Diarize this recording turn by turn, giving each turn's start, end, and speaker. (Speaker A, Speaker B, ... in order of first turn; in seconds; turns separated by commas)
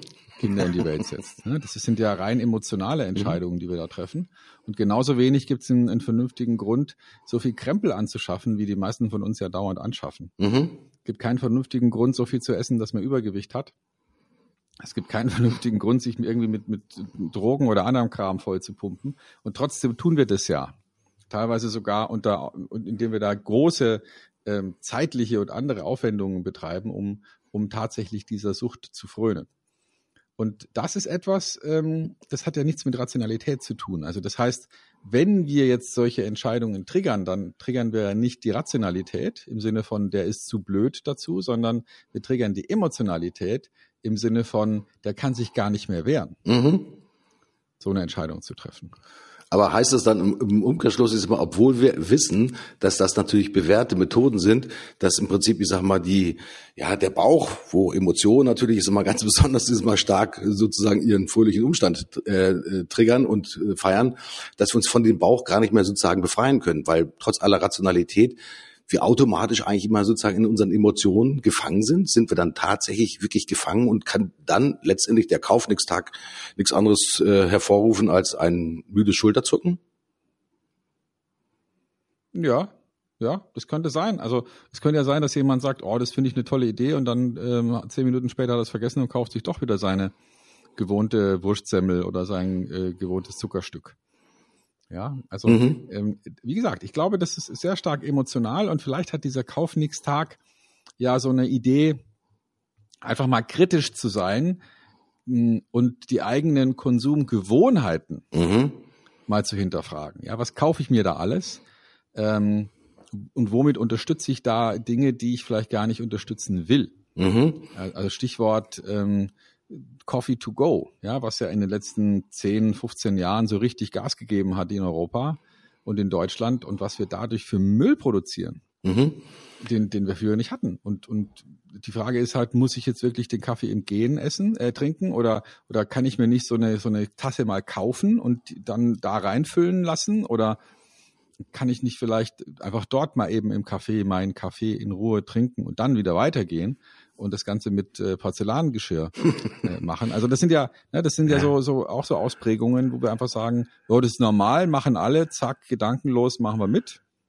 Speaker A: 0.4-10.3, Speaker B: 10.4-10.8, Speaker A: 11.0-13.7, Speaker A: 14.8-20.8, Speaker A: 21.3-29.5, Speaker A: 30.4-46.4, Speaker B: 46.4-47.0, Speaker A: 47.8-48.9, Speaker B: 49.5-68.4, Speaker B: 68.9-79.8, Speaker A: 82.3-90.1, Speaker A: 90.8-94.0, Speaker A: 94.9-100.4, Speaker B: 95.5-95.8, Speaker A: 101.0-102.0, Speaker A: 103.0-104.6, Speaker A: 105.2-108.3, Speaker B: 108.3-108.8, Speaker A: 109.3-111.6, Speaker A: 112.1-117.0, Speaker B: 117.2-117.7, Speaker A: 117.7-128.6, Speaker B: 128.8-129.2, Speaker A: 129.6-140.6, Speaker A: 141.5-157.0